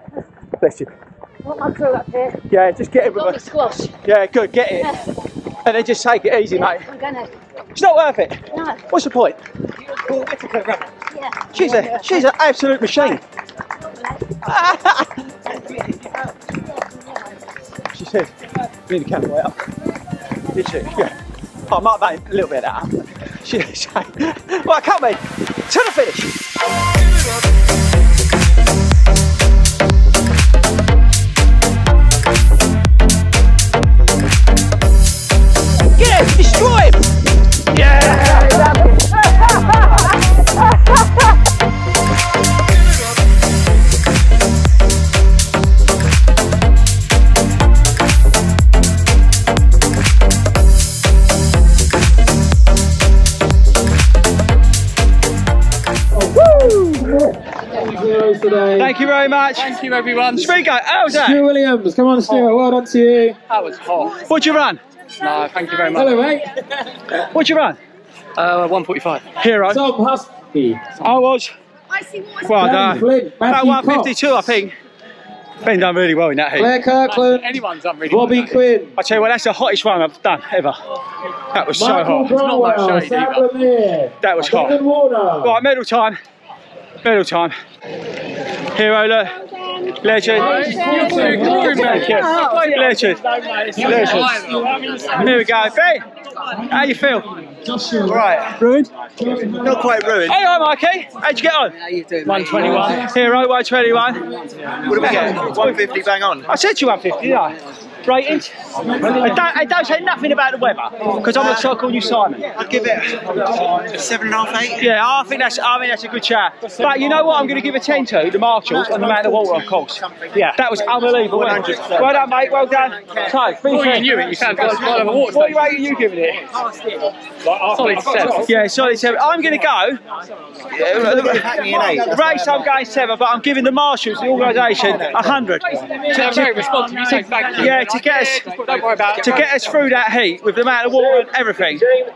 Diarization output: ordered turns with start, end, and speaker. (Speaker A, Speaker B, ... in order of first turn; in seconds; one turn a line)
Speaker A: 0.6-0.9
Speaker A: 1.4-5.0
Speaker B: 3.1-3.9
Speaker A: 5.6-6.9
Speaker B: 6.7-7.3
Speaker A: 7.7-9.4
Speaker B: 8.5-8.8
Speaker C: 10.0-10.9
Speaker B: 11.1-11.9
Speaker A: 11.5-13.2
Speaker A: 14.4-15.8
Speaker A: 17.9-18.3
Speaker A: 18.9-19.6
Speaker A: 20.5-21.1
Speaker A: 21.7-26.3
Speaker A: 35.9-37.1
Speaker A: 37.7-40.6
Speaker D: 56.1-59.0
Speaker A: 56.3-57.2
Speaker A: 58.8-59.7
Speaker E: 59.6-60.6
Speaker A: 60.3-61.4
Speaker D: 61.1-63.4
Speaker E: 63.5-64.2
Speaker A: 64.1-64.8
Speaker E: 65.2-66.2
Speaker D: 65.9-66.8
Speaker A: 67.2-67.8
Speaker E: 68.4-69.3
Speaker A: 69.4-69.8
Speaker D: 69.7-70.9
Speaker A: 71.0-71.5
Speaker A: 72.1-74.8
Speaker D: 72.5-74.1
Speaker A: 75.6-76.7
Speaker D: 76.6-79.0
Speaker E: 77.0-78.6
Speaker A: 79.0-80.8
Speaker A: 81.5-82.3
Speaker D: 81.7-85.5
Speaker E: 82.2-83.5
Speaker A: 84.2-84.8
Speaker A: 85.4-86.2
Speaker A: 87.0-87.6
Speaker A: 88.7-94.4
Speaker D: 90.3-92.3
Speaker E: 90.4-92.7
Speaker E: 93.5-95.1
Speaker D: 93.7-95.4
Speaker A: 95.1-96.0
Speaker A: 96.6-97.4
Speaker D: 97.5-98.2
Speaker C: 98.0-98.6
Speaker A: 98.5-98.9
Speaker D: 99.2-100.0
Speaker C: 99.2-100.4
Speaker A: 100.2-101.8
Speaker C: 101.8-103.0
Speaker E: 102.2-103.1
Speaker A: 102.7-104.3
Speaker C: 104.8-106.5
Speaker A: 104.9-105.8
Speaker A: 106.5-112.5
Speaker D: 108.9-109.3
Speaker C: 111.2-111.8
Speaker C: 112.5-114.9
Speaker A: 114.8-126.5
Speaker C: 121.1-122.2
Speaker C: 123.0-123.3
Speaker E: 123.6-125.9
Speaker E: 127.5-128.5
Speaker A: 128.2-130.0
Speaker A: 130.6-136.5
Speaker C: 130.9-132.7
Speaker C: 134.8-135.4
Speaker D: 135.9-136.9
Speaker E: 136.0-139.6
Speaker A: 137.1-141.9